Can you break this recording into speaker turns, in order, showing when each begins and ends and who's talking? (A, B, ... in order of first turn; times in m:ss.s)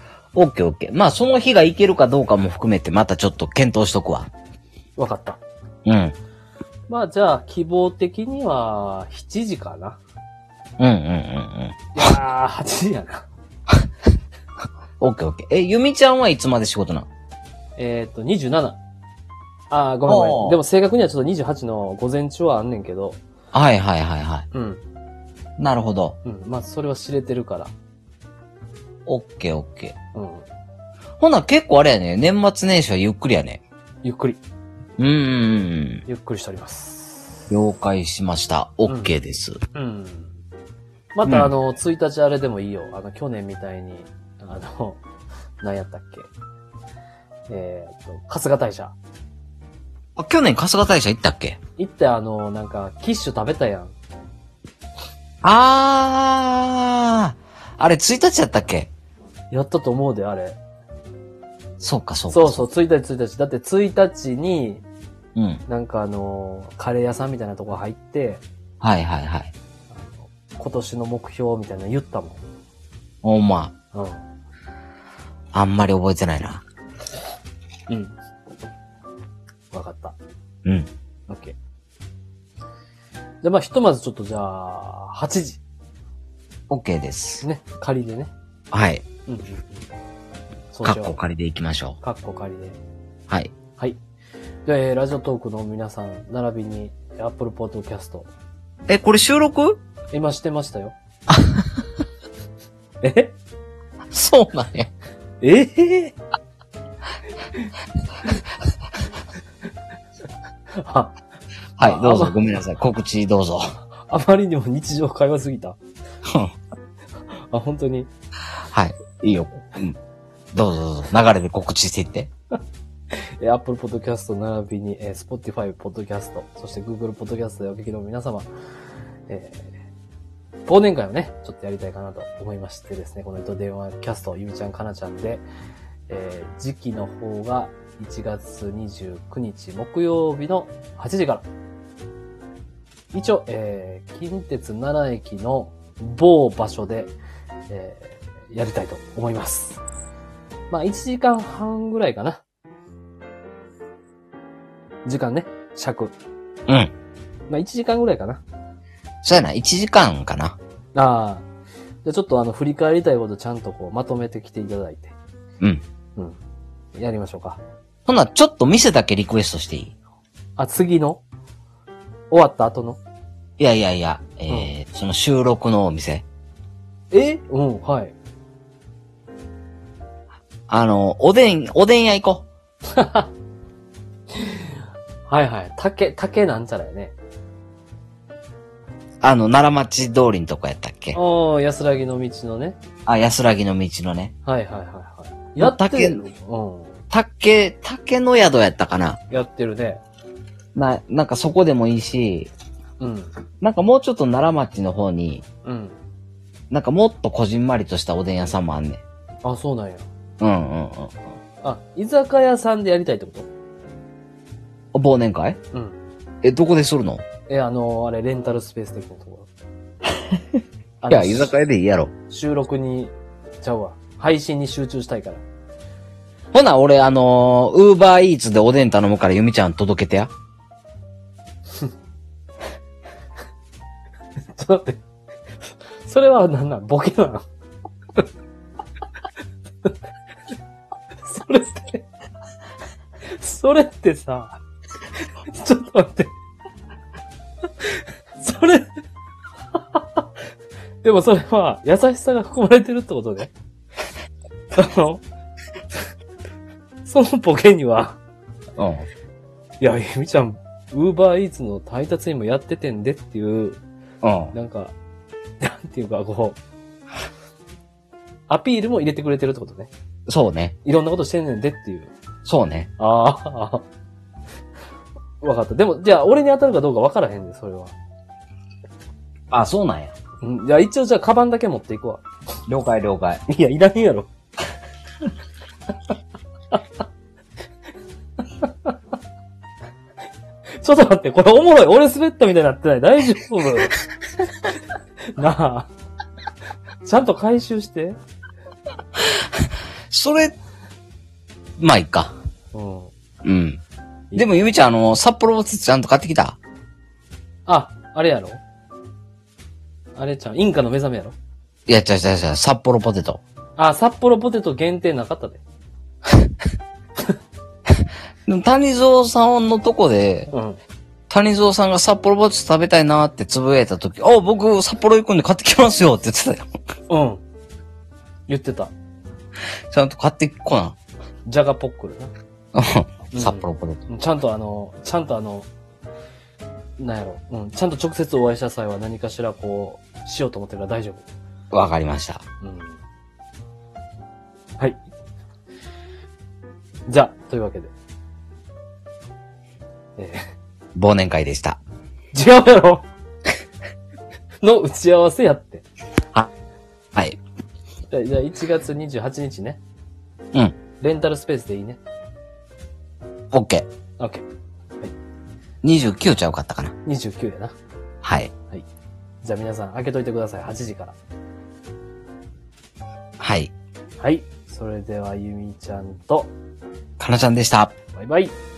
0:00.3-0:04.3 A
0:05.0-0:05.4 B
0:05.8-0:06.2 A
0:06.9-0:10.0 B
0:10.8-0:11.8 A
0:11.9-0:13.2 B
0:15.0-0:17.1 A
0:17.8-0:18.8 B
0:19.7-0:23.2 B
0:20.0-0:20.6 A
0:23.5-0:24.5 A
0:24.5-0:24.8 B
0:25.6-0:26.2 A
0:26.2-0:27.7 B
0:29.0-0:29.9 A
0:30.1-0:30.4 B
0:31.2-0:33.6 A
0:34.0-0:34.4 B
0:35.0-0:36.0 A
0:36.1-0:37.5 B
0:37.5-0:39.6 A
0:38.8-0:39.1 B
0:39.7-0:40.3 B
0:41.1-0:45.0 B
0:45.6-0:46.3 B
0:47.5-0:48.9 B
0:50.2-0:51.6 A
0:51.8-0:53.9 B
0:55.4-0:58.9 A
0:59.5-1:00.6 B
1:01.8-1:02.6 A
1:02.3-1:04.8 B
1:05.4-1:05.6 A
1:05.7-1:08.4 B
1:08.8-1:09.5 A
1:09.9-1:12.4 B
1:13.2-1:13.7 A
1:13.9-1:14.2 B
1:15.5-1:16.6 A
1:17.9-1:18.1 B
1:19.7-1:20.2 B
1:21.3-1:21.6 B
1:23.4-1:25.6 B
1:26.7-1:27.4 A
1:27.4-1:28.3 B
1:28.7-1:29.0 A
1:29.3-1:29.8 B
1:30.7-1:31.2 B
1:30.8-1:32.0 A
1:32.0-1:32.8 B
1:34.6-1:38.3 B
1:38.9-1:39.8 A
1:40.1-1:40.9 B
1:41.3-1:41.6 A
1:43.0-1:43.3 B
1:44.1-1:44.9 A
1:45.4-1:46.2 B
1:50.7-1:51.1 B
1:51.8-1:53.7 A
1:51.8-1:52.4 B
1:54.1-1:55.8 B
1:56.3-1:56.5 A
1:57.5-1:58.1 B
1:58.7-2:00.0 A
2:00.5-2:02.3 A
2:03.1-2:08.5 B
2:09.3-2:09.7 B
2:10.6-2:15.4 B
2:16.1-2:21.4 B
2:23.1-2:27.1 B
2:27.7-2:29.8 B
2:30.7-2:32.4 B
2:35.0-2:36.1 B
2:36.7-2:36.9 A
2:37.5-2:38.4 B
2:39.2-2:40.6 A
2:40.9-2:41.5 B
2:42.0-2:45.2 B
2:46.9-2:47.6 B
2:48.0-2:49.9 A
2:50.6-2:51.2 B
2:52.3-2:53.0 B
2:53.6-2:56.2 A
2:57.1-2:58.1 B
3:00.7-3:02.4 A
3:02.9-3:03.3 B
3:04.3-3:04.8 B
3:05.3-3:07.1 B
3:09.2-3:11.2 A
3:11.1-3:12.8 B
3:13.0-3:14.3 A
3:14.4-3:16.9 B
3:15.6-3:16.2 A
3:17.1-3:19.2 A
3:19.3-3:20.0 B
3:20.7-3:22.5 A
3:23.0-3:23.3 B
3:23.6-3:25.4 A
3:25.6-3:26.0 B
3:26.7-3:29.0 A
3:29.4-3:30.1 B
3:30.4-3:31.2 A
3:31.6-3:33.5 B
3:34.9-3:35.6 A
3:35.7-3:36.0 B
3:36.4-3:37.2 A
3:37.5-3:39.5 B
3:41.0-3:41.5 B
3:41.1-3:42.1 A
3:42.3-3:45.4 B
3:46.5-3:50.3 A
3:54.5-3:55.0 B
3:56.0-3:57.5 B
4:01.2-4:02.0 B
4:03.3-4:04.5 B
4:05.5-4:06.3 B
4:08.0-4:08.9 B
4:09.9-4:10.2 B
4:11.0-4:13.5 B
4:14.7-4:15.2 B
4:17.0-4:18.2 B
4:18.8-4:19.1 A
4:19.8-4:23.8 B
4:24.2-4:24.5 A
4:24.5-4:24.9 B
4:25.6-4:26.6 B
4:28.5-4:29.9 B
4:30.3-4:30.7 A
4:30.8-4:32.1 B
4:32.4-4:32.9 A
4:33.0-4:33.8 B
4:35.4-4:37.9 B
4:39.5-4:40.1 A
4:40.4-4:42.2 B
4:42.7-4:43.4 A
4:43.5-4:44.3 B
4:48.6-4:48.9 B
4:50.8-4:54.0 B
4:55.3-4:55.9 B
4:57.0-4:58.2 B
5:00.1-5:00.5 A
5:01.8-5:02.4 A
5:02.7-5:03.1 B
5:03.4-5:03.8 A
5:04.3-5:06.6 A
5:07.7-5:08.6 B
5:10.1-5:11.3 B
5:11.9-5:13.4 A
5:13.8-5:15.6 B
5:18.5-5:20.5 A
5:20.5-5:20.8 B
5:21.3-5:26.7 A
5:27.1-5:27.4 B
5:28.5-5:28.9 B
5:29.9-5:31.0 A
5:31.4-5:32.3 B
5:32.7-5:34.0 A
5:33.3-5:35.7 B
5:37.0-5:41.2 B
5:41.7-5:42.4 A
5:42.6-5:43.0 B
5:47.1-5:47.9 B
5:50.2-5:50.4 B
5:50.9-5:51.8 A
5:52.3-5:53.0 B
5:54.6-5:55.8 B
5:58.1-5:59.8 B
6:01.0-6:02.0 B
6:03.5-6:03.9 A
6:04.2-6:04.4 B
6:05.8-6:06.9 A
6:07.0-6:07.7 B
6:08.2-6:08.5 A
6:09.4-6:11.2 B
6:13.4-6:13.7 A
6:14.2-6:16.5 B
6:17.2-6:17.9 A
6:18.1-6:18.5 B